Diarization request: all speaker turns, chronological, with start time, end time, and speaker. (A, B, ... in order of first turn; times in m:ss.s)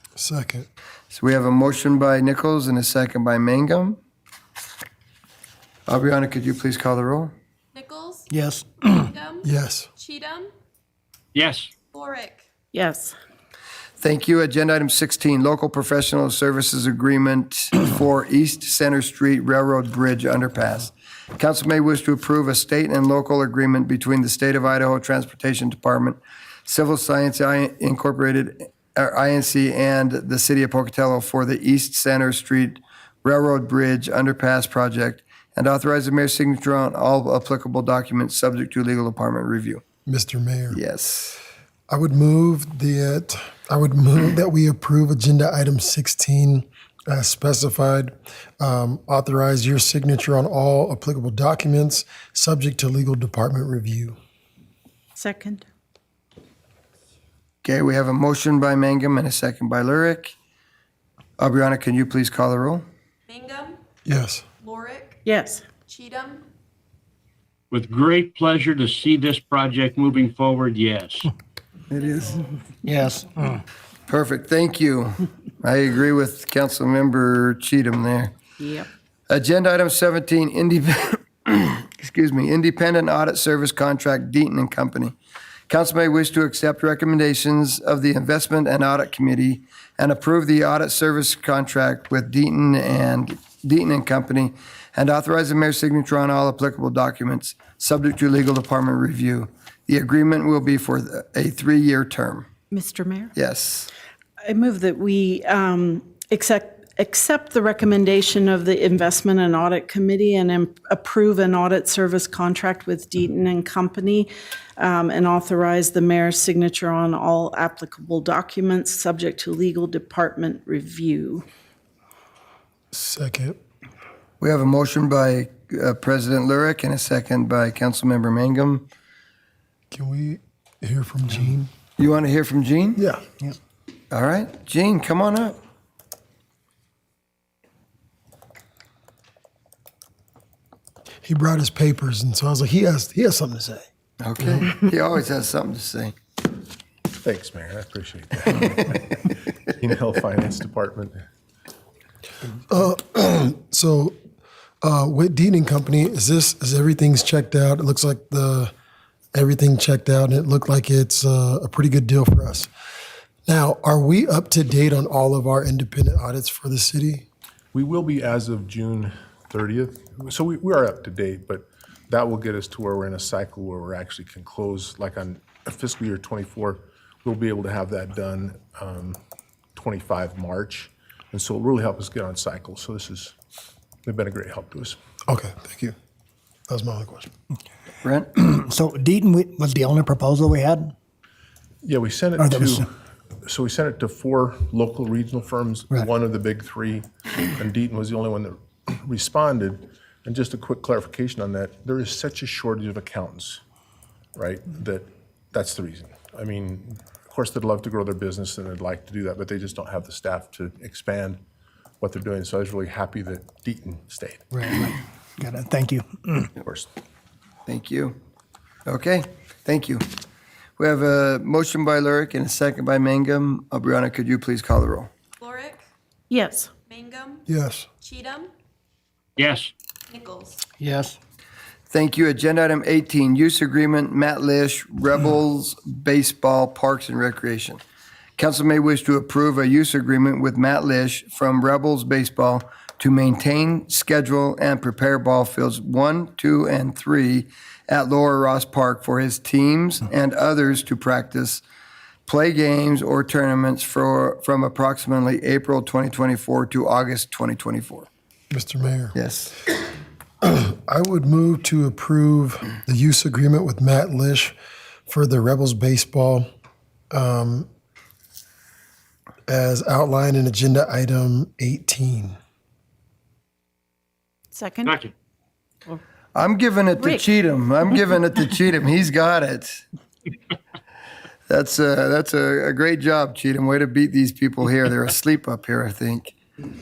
0:00.2-0:00.7 A
0:01.1-0:04.0 B
0:05.9-0:07.3 B
0:07.7-0:08.3 C
0:08.3-0:09.1 D
0:09.0-0:10.5 C
0:09.4-0:09.9 A
0:11.4-0:11.7 E
0:11.9-0:12.4 C
0:12.7-0:13.1 F
0:14.0-0:39.8 B
0:40.1-0:40.8 A
0:40.7-0:41.4 B
0:41.9-0:54.2 A
0:55.2-0:55.6 F
0:57.6-1:00.3 B
1:01.4-1:02.8 B
1:03.3-1:03.8 C
1:04.1-1:04.4 A
1:04.6-1:05.3 C
1:05.3-1:05.6 F
1:05.9-1:06.4 C
1:07.7-1:11.3 E
1:11.9-1:12.4 B
1:12.8-1:13.6 D
1:14.1-1:18.3 B
1:18.6-1:18.9 F
1:19.3-1:25.1 B
1:25.7-1:42.5 B
1:42.7-1:43.3 F
1:43.4-1:43.9 B
1:44.5-2:01.4 F
2:02.9-2:03.6 A
2:04.4-2:08.9 B
2:09.9-2:11.7 A
2:12.0-2:13.0 B
2:13.0-2:13.2 A
2:14.1-2:15.6 B
2:21.2-2:23.9 A
2:24.2-2:26.1 B
2:27.2-2:29.2 G
2:29.8-2:31.3 G
2:32.6-2:34.2 A
2:34.8-2:38.7 A
2:39.3-2:42.7 A
2:43.5-2:47.3 A
2:47.7-2:59.2 G
2:59.8-3:03.3 G
3:04.1-3:05.0 G
3:05.3-3:06.0 A
3:06.7-3:07.3 A
3:08.0-3:08.3 B
3:08.3-3:10.9 D
3:11.8-3:12.9 G
3:12.4-3:12.9 D
3:13.4-3:23.6 G
3:24.4-3:31.4 G
3:32.0-3:34.4 G
3:34.5-3:36.5 D
3:36.6-3:36.9 G
3:37.7-3:38.2 B
3:38.9-3:40.1 B
3:40.8-3:45.1 B
3:45.4-3:45.8 C
3:46.3-3:46.7 F
3:46.9-3:47.4 C
3:47.5-3:47.9 A
3:48.0-3:48.5 C
3:49.4-3:49.7 E
3:50.1-3:50.6 C
3:50.8-3:51.2 D
3:51.9-3:57.8 B
3:58.4-4:11.6 B
4:12.3-4:18.1 B
4:18.5-4:19.2 A
4:19.2-4:19.6 B
4:20.4-4:24.6 A
4:25.1-4:26.5 A
4:27.1-4:27.7 A
4:29.5-4:32.4 A
4:34.5-4:35.0 F
4:34.9-4:35.1 E
4:36.4-4:39.8 B
4:41.5-4:46.4 B